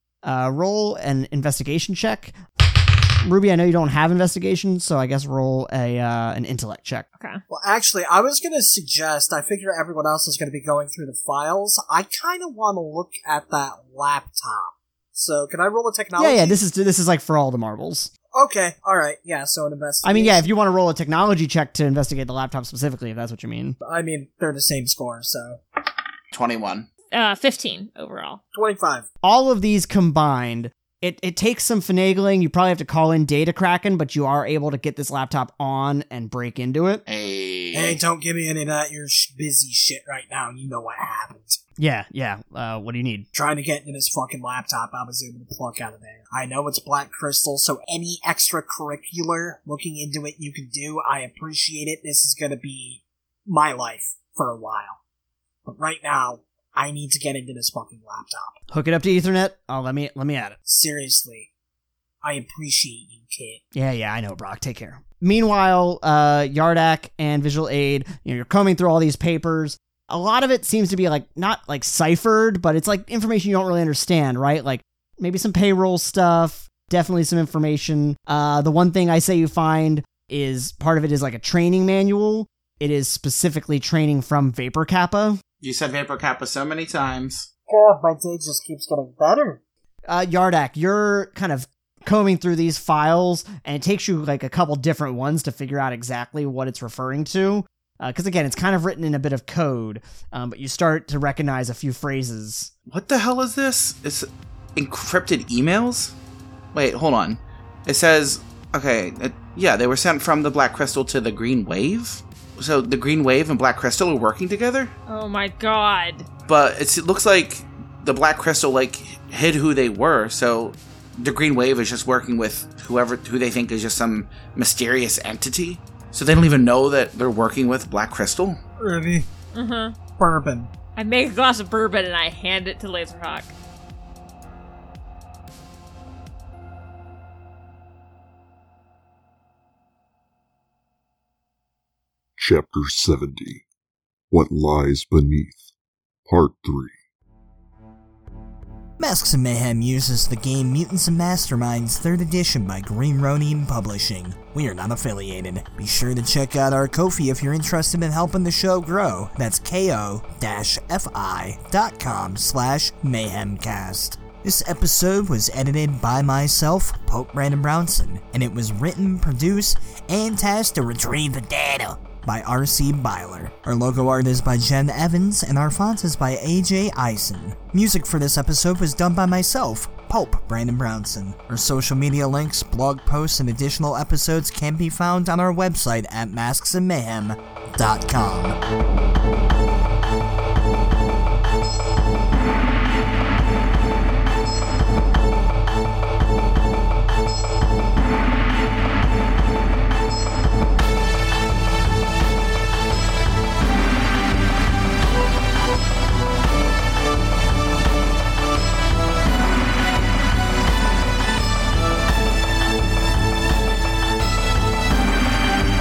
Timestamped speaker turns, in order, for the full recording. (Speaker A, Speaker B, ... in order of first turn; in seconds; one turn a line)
Speaker A: 0.2-2.4
Speaker A: 3.2-7.1
Speaker B: 7.5-16.6
Speaker A: 16.2-18.1
Speaker B: 18.3-20.4
Speaker A: 20.0-23.8
Speaker B: 23.8-25.6
Speaker C: 26.3-26.9
Speaker D: 27.1-28.4
Speaker B: 28.5-29.1
Speaker A: 29.2-37.0
Speaker C: 37.1-38.0
Speaker B: 37.7-41.6
Speaker A: 41.8-43.3
Speaker B: 43.3-55.0
Speaker B: 55.7-58.6
Speaker A: 58.7-60.6
Speaker B: 60.7-61.5
Speaker B: 62.2-63.6
Speaker A: 63.7-85.4
Speaker C: 85.6-87.5
Speaker B: 87.7-89.6
Speaker A: 90.1-102.7
Speaker C: 102.9-106.2
Speaker C: 106.7-114.9
Speaker D: 115.1-116.3
Speaker C: 116.5-128.6
Speaker B: 128.8-129.3
Speaker D: 129.5-129.9
Speaker B: 130.2-130.7
Speaker D: 131.0-133.5
Speaker E: 142.4-143.7
Speaker E: 144.3-145.6
Speaker E: 146.3-146.9
Speaker F: 149.0-188.6